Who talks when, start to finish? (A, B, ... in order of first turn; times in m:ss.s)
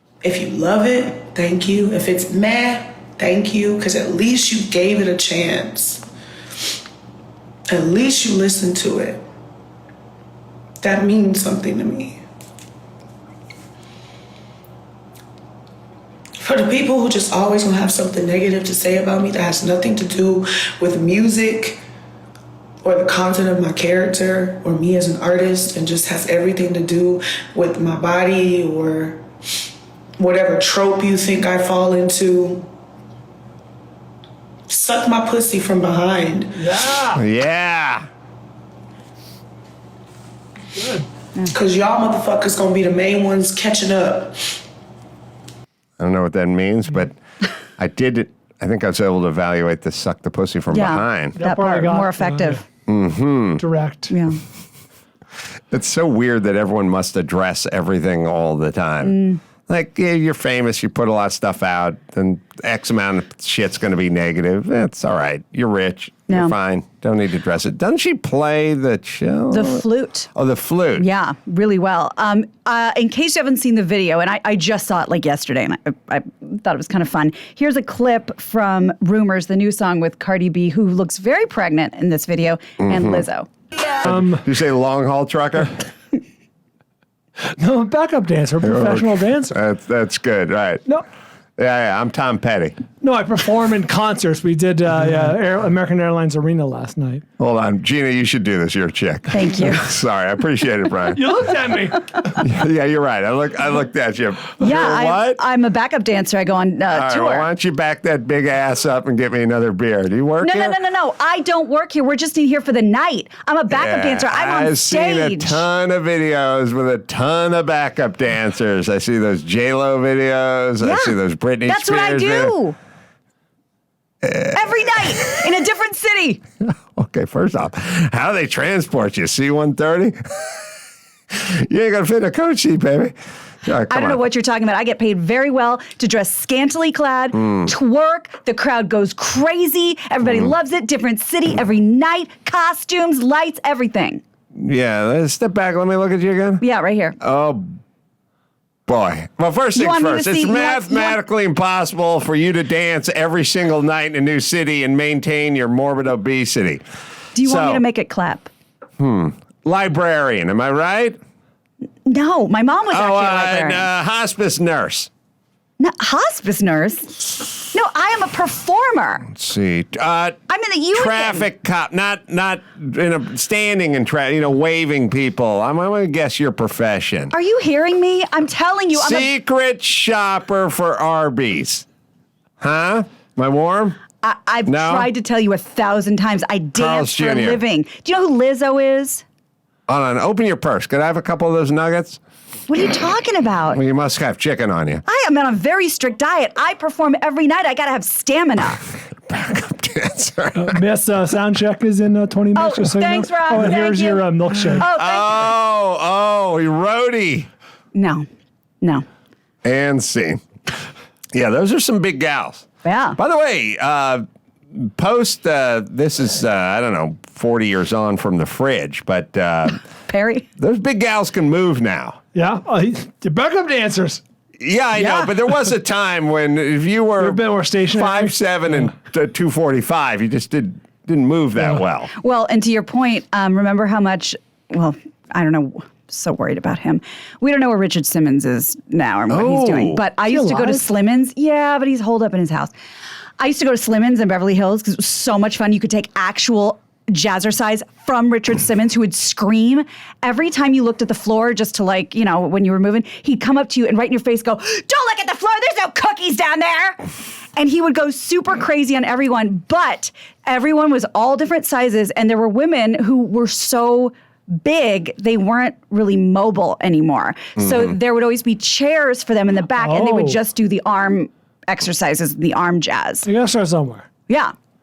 0:00.2-0:06.0 A
0:07.7-0:09.2 A
0:10.8-0:12.2 A
0:16.4-0:21.8 A
0:22.8-0:29.2 A
0:30.2-0:32.7 A
0:34.7-0:36.7 A
0:36.6-0:37.2 B
0:37.1-0:38.0 C
0:40.8-0:41.0 B
0:41.5-0:44.6 A
0:46.0-0:47.2 C
0:47.8-0:51.4 C
0:50.7-0:52.6 D
0:51.3-0:52.6 B
0:52.9-0:53.6 C
0:53.6-0:54.1 B
0:54.1-0:54.4 D
0:55.7-1:11.0 C
0:59.0-0:59.4 D
1:09.5-1:10.3 D
1:11.0-1:23.5 D
1:22.8-1:23.2 C
1:24.0-1:24.4 B
1:24.0-1:25.8 C
1:27.5-1:29.6 B
1:28.6-1:30.8 C
1:31.6-1:32.8 C
1:33.0-1:37.2 B
1:37.4-1:41.4 C
1:39.3-1:39.9 D
1:41.1-1:42.2 B
1:42.2-1:45.4 C
1:44.6-1:47.5 D
1:46.9-1:50.8 C
1:50.4-1:55.6 D
1:53.7-2:02.5 C
2:00.8-2:02.8 D
2:04.4-2:06.4 D
2:06.6-2:10.6 C
2:11.3-2:14.2 C
2:13.9-2:24.2 D
2:17.4-2:17.7 C
2:24.5-2:26.6 C
2:26.6-2:27.2 D
2:27.2-2:27.8 C
2:28.9-2:36.8 C
2:29.8-2:31.2 D
2:37.3-2:38.5 D
2:37.4-2:37.8 C
2:39.0-2:41.2 C
2:42.0-2:43.9 D
2:42.9-2:45.1 C
2:45.8-2:49.3 D
2:49.3-2:50.4 C
2:50.5-2:51.5 D
2:50.9-2:57.3 C
2:57.3-2:59.3 D
2:58.9-3:01.8 C
3:02.6-3:04.0 C
3:04.2-3:09.2 D
3:04.7-3:05.1 C
3:06.8-3:07.6 C
3:09.9-3:12.2 C
3:12.7-3:13.8 D
3:13.7-3:15.0 C
3:15.1-3:18.9 D
3:19.3-3:20.8 C
3:20.6-3:24.9 B
3:22.5-3:24.2 D
3:24.8-3:25.5 D
3:24.8-3:27.5 C
3:27.9-3:28.2 D
3:29.6-3:30.4 C
3:31.3-3:39.8 C
3:32.8-3:33.2 D
3:40.1-3:40.5 D
3:40.6-3:42.2 C
3:42.3-3:44.2 B
3:44.6-3:52.1 C
3:45.0-3:45.3 D
3:47.2-3:48.9 B
3:52.1-4:02.7 D
3:59.3-4:00.0 C
4:00.3-4:00.9 B
4:03.4-4:17.0 D
4:17.6-4:33.3 D
4:29.8-4:30.4 B
4:33.2-4:34.1 B
4:34.3-4:34.5 D